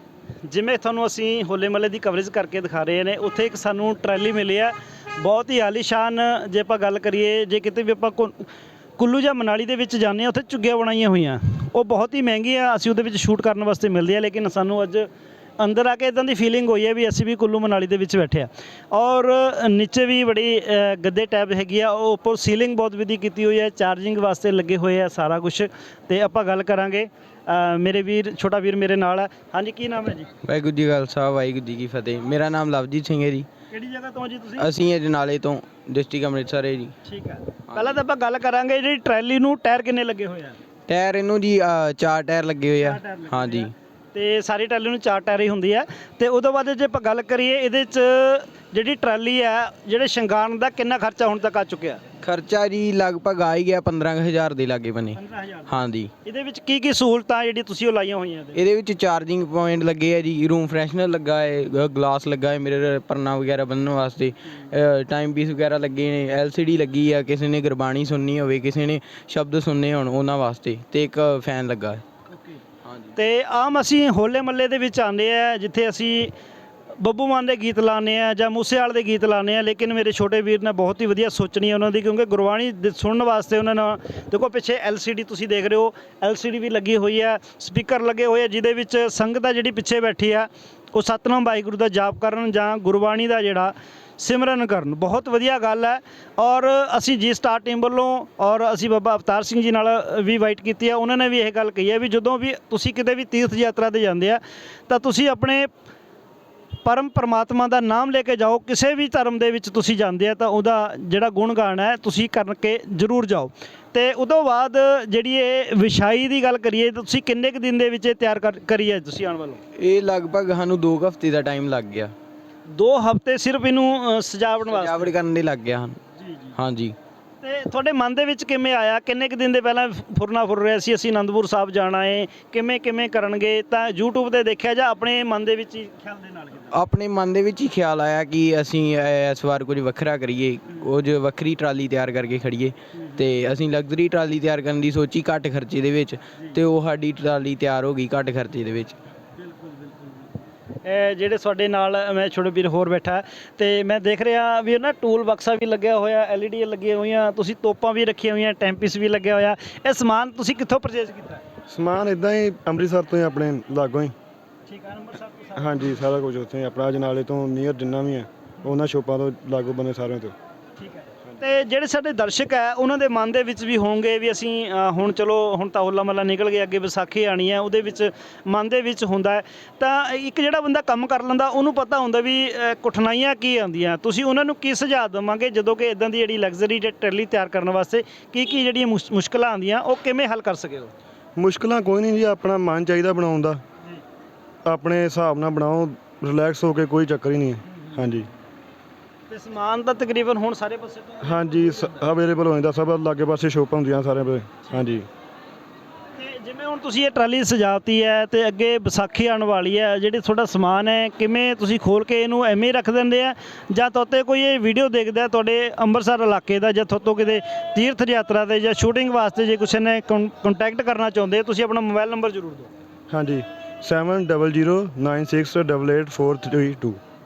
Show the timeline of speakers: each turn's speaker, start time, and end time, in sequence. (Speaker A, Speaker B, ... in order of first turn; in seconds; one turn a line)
Speaker A: 0.4-8.5
Speaker A: 9.0-30.3
Speaker B: 30.4-33.5
Speaker A: 33.7-34.7
Speaker B: 34.6-36.9
Speaker A: 37.0-40.6
Speaker B: 37.7-38.0
Speaker B: 40.9-43.7
Speaker A: 42.8-52.0
Speaker B: 52.2-56.1
Speaker A: 55.1-55.7
Speaker A: 56.2-58.6
Speaker B: 58.5-72.0
Speaker A: 72.3-72.6
Speaker B: 72.8-73.1
Speaker A: 73.2-76.3
Speaker A: 77.0-105.7
Speaker A: 106.8-119.6
Speaker B: 119.8-122.1
Speaker A: 122.7-125.1
Speaker B: 124.6-126.0
Speaker A: 126.2-126.5
Speaker B: 126.6-126.9
Speaker A: 127.4-136.7
Speaker B: 136.7-149.0
Speaker A: 142.9-143.2
Speaker A: 149.4-150.3
Speaker A: 150.8-161.4
Speaker C: 161.7-164.1
Speaker A: 164.7-166.0
Speaker C: 165.6-170.3
Speaker A: 170.8-190.9
Speaker C: 191.4-193.6
Speaker C: 194.6-198.3
Speaker A: 199.3-202.0
Speaker C: 201.2-205.1
Speaker A: 206.1-222.7
Speaker C: 223.1-227.0